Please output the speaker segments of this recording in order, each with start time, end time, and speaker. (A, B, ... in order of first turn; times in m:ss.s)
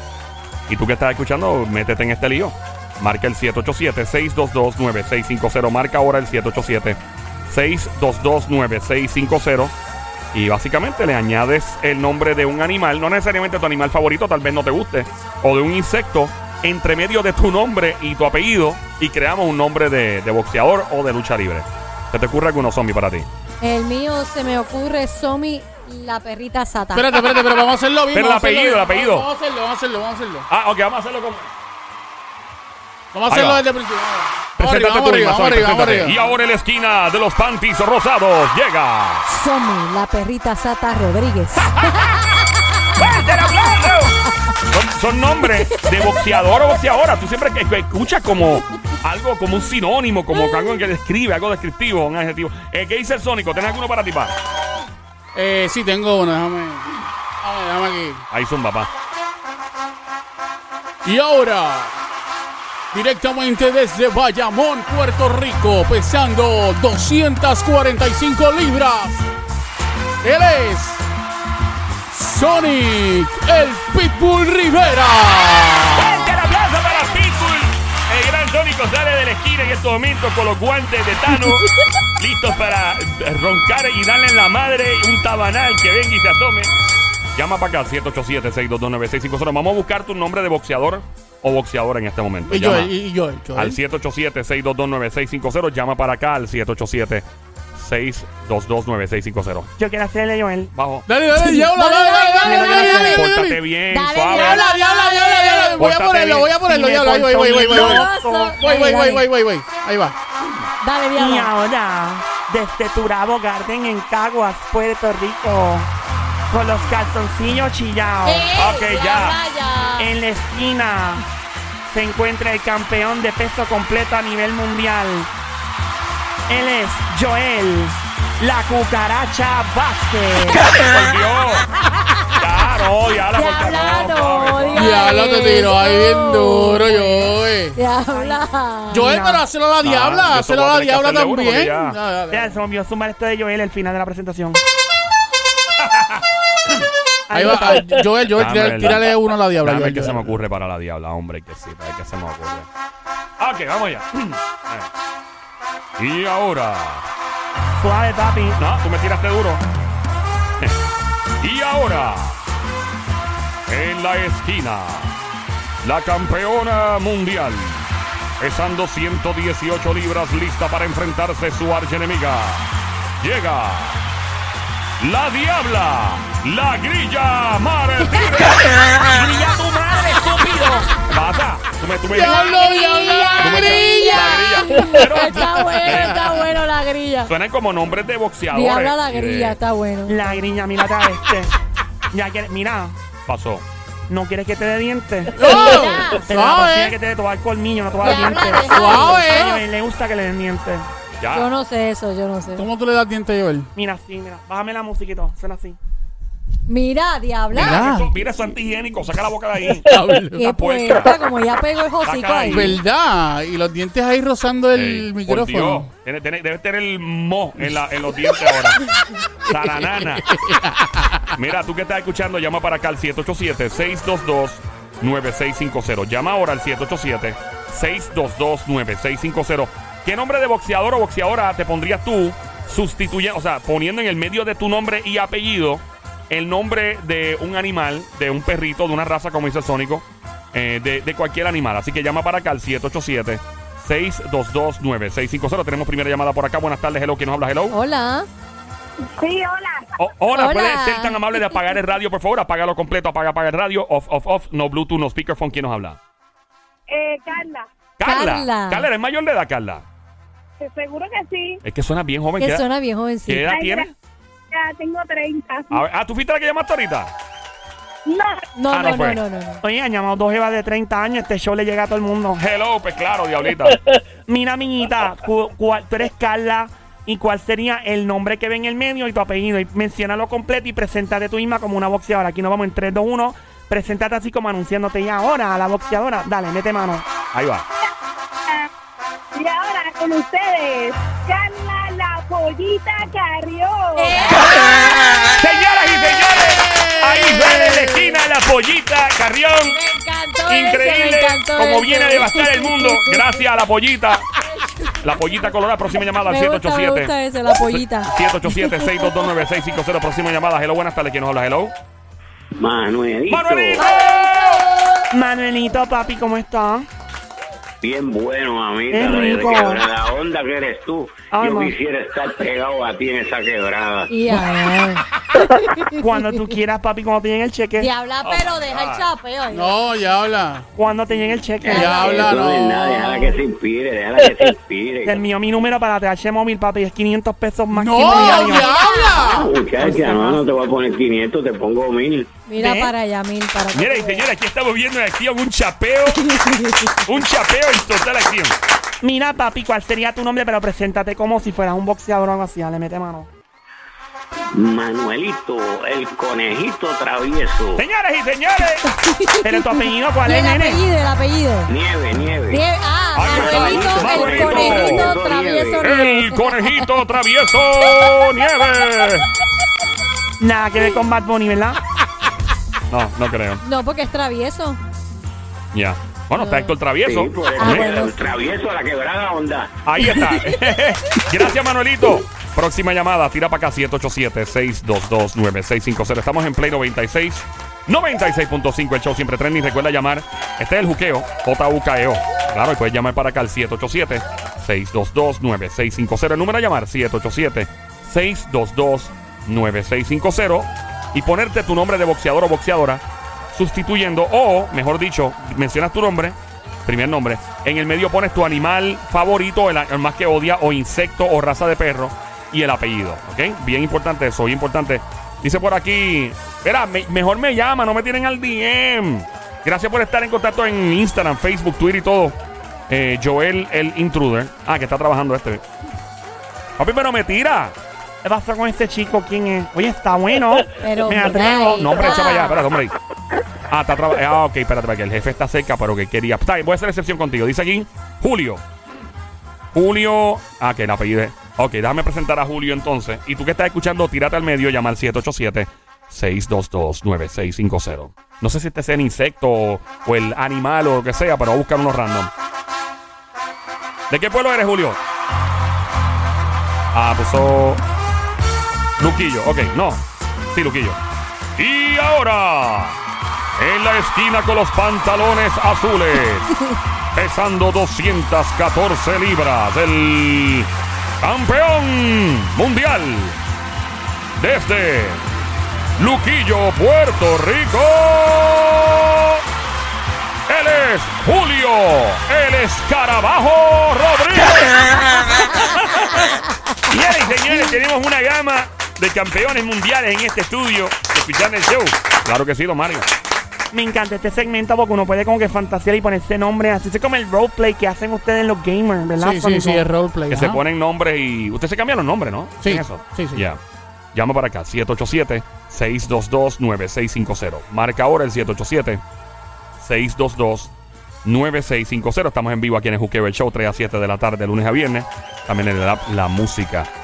0:00.7-0:09.7 A
0:10.3-0:23.3 A
0:23.6-0:27.4 B
0:26.9-0:30.5 C
0:28.1-0:29.3 A
0:30.5-0:31.5 A
0:33.1-0:36.2 C
0:33.3-0:33.6 A
0:34.6-0:39.2 A
0:39.3-0:43.0 B
0:43.0-0:44.2 A
0:44.7-0:54.4 A
0:45.7-0:46.3 B
0:50.4-0:50.8 B
0:55.4-0:58.2 C
0:58.3-0:58.9 A
1:01.0-1:01.9 C
1:02.9-1:09.3 C
1:10.2-1:11.0 C
1:12.1-1:16.2 C
1:16.0-1:21.7 A
1:22.2-1:26.7 A
1:27.4-1:32.9 A
1:32.5-1:33.8 C
1:33.5-1:39.7 A
1:39.8-1:40.7 D
1:40.7-1:41.0 A
1:41.1-1:43.6 C
1:41.3-1:43.2 B
1:42.4-1:43.2 D
1:43.1-1:44.6 A
1:43.9-1:45.9 B
1:44.3-1:50.2 C
1:45.8-1:46.5 A
1:46.0-1:48.6 D
1:47.7-1:49.3 B
1:50.8-1:51.5 B
1:51.2-1:55.9 D
1:56.5-1:58.5 D
1:58.2-2:00.1 B
1:58.6-1:59.4 A
2:00.0-2:01.2 D
2:01.9-2:05.3 D
2:06.5-2:10.7 D
2:10.6-2:11.7 A
2:12.1-2:12.4 B
2:12.4-2:15.1 A
2:13.3-2:19.1 B
2:14.8-2:17.8 C
2:18.1-2:18.4 D
2:18.9-2:22.6 C
2:18.9-2:19.5 D
2:19.8-2:22.0 A
2:22.3-2:24.6 D
2:25.8-2:26.2 A
2:27.3-2:28.0 D
2:27.3-2:30.4 C
2:28.3-2:32.7 A
2:33.4-2:34.9 A
2:36.0-2:37.0 A
2:37.8-2:38.6 D
2:38.6-2:39.6 A
2:41.4-2:42.4 A
2:43.7-2:45.2 A
2:45.8-2:47.9 A
2:48.4-2:52.7 A
2:53.2-2:54.0 A
2:55.0-3:02.4 A
2:58.1-2:58.5 B
3:02.1-3:04.4 C
3:02.2-3:07.3 B
3:03.4-3:06.4 A
3:05.0-3:06.1 C
3:07.3-3:09.6 A
3:08.5-3:10.2 B
3:10.1-3:11.5 D
3:12.1-3:13.0 D
3:13.3-3:13.6 A
3:14.1-3:20.9 D
3:15.3-3:17.0 C
3:15.4-3:16.3 B
3:18.0-3:19.6 B
3:18.0-3:19.6 C
3:21.2-3:21.5 A
3:21.3-3:22.7 B
3:22.6-3:23.7 C
3:23.8-3:25.8 D
3:26.7-3:27.9 B
3:27.5-3:28.2 C
3:27.6-3:31.2 A
3:29.8-3:30.5 C
3:30.4-3:32.8 B
3:32.0-3:32.8 A
3:32.5-3:35.9 C
3:34.7-3:38.8 A
3:38.4-3:41.3 C
3:39.5-3:40.3 A
3:41.4-4:07.8 A
4:07.7-4:08.3 B
4:09.1-4:09.9 E
4:10.0-4:16.0 A
4:10.3-4:11.5 B
4:16.9-4:17.7 E
4:18.0-4:19.8 A
4:18.0-4:18.9 B
4:20.6-4:21.6 E
4:21.6-4:22.6 A
4:22.4-4:23.5 B
4:23.3-4:23.9 A
4:23.5-4:23.9 E
4:24.5-4:25.8 E
4:25.7-4:27.1 A
4:28.1-4:28.5 E
4:28.5-4:29.6 B
4:28.7-4:29.2 A
4:29.6-4:32.4 D
4:32.4-4:33.8 A
4:34.3-4:47.0 D
4:47.3-4:47.6 A
4:49.4-4:54.4 E
4:54.0-4:55.2 B
4:55.4-4:59.8 A
4:56.4-4:58.2 C
4:59.7-5:03.5 B
5:00.5-5:04.3 A
5:04.5-5:05.0 B
5:05.0-5:11.7 A
5:06.2-5:09.4 B
5:12.6-5:13.8 F
5:13.3-5:14.6 A
5:13.8-5:14.8 B
5:15.1-5:16.9 D
5:17.8-5:24.1 F
5:18.9-5:19.8 D
5:21.3-5:21.7 D
5:24.1-5:26.0 B
5:26.0-5:27.9 D
5:27.8-5:29.7 B
5:28.2-5:29.1 A
5:29.5-5:30.7 C
5:30.8-5:32.3 D
5:31.6-5:33.3 B
5:31.7-5:33.0 C
5:32.0-5:35.2 F
5:35.0-5:38.7 D
5:37.7-5:39.5 C
5:38.0-5:39.4 B
5:39.4-5:42.4 F
5:39.6-5:40.4 D
5:42.5-5:44.2 B
5:42.6-5:42.9 D
5:43.7-5:46.3 A
5:46.2-5:47.0 B
5:47.0-5:48.6 A
5:49.0-5:53.3 D
5:54.6-5:57.8 F
5:57.8-5:58.8 A
5:58.8-6:01.7 B
5:59.4-6:00.8 D
6:01.7-6:02.6 F
6:02.5-6:06.8 B
6:03.2-6:05.1 A
6:03.2-6:05.8 F
6:05.8-6:09.3 A
6:10.4-6:11.8 D
6:12.9-6:13.6 A
6:13.6-6:14.8 B
6:15.7-6:17.9 A
6:16.3-6:16.8 B
6:17.0-6:19.7 F
6:17.6-6:18.3 B
6:19.8-7:02.4 A
6:20.0-6:20.6 B
7:02.9-7:05.6 A
7:06.8-7:07.8 A
7:08.2-7:11.9 D
7:10.8-7:12.6 B
7:11.3-7:12.9 A
7:13.7-7:18.6 A
7:19.7-7:32.3 A
7:34.1-7:35.0 A
7:36.9-7:37.8 A
7:39.0-7:41.0 A
7:41.6-7:43.0 A
7:43.6-7:46.6 A
7:47.2-7:53.4 A
7:54.4-7:55.2 A
7:56.0-7:59.4 A
8:00.5-8:06.3 A
8:06.9-8:13.1 A
8:13.7-8:19.9 D
8:19.2-8:20.6 C
8:20.3-8:23.6 A
8:22.6-8:23.4 C
8:24.1-8:29.0 A
8:29.8-8:30.7 A
8:31.2-8:36.9 A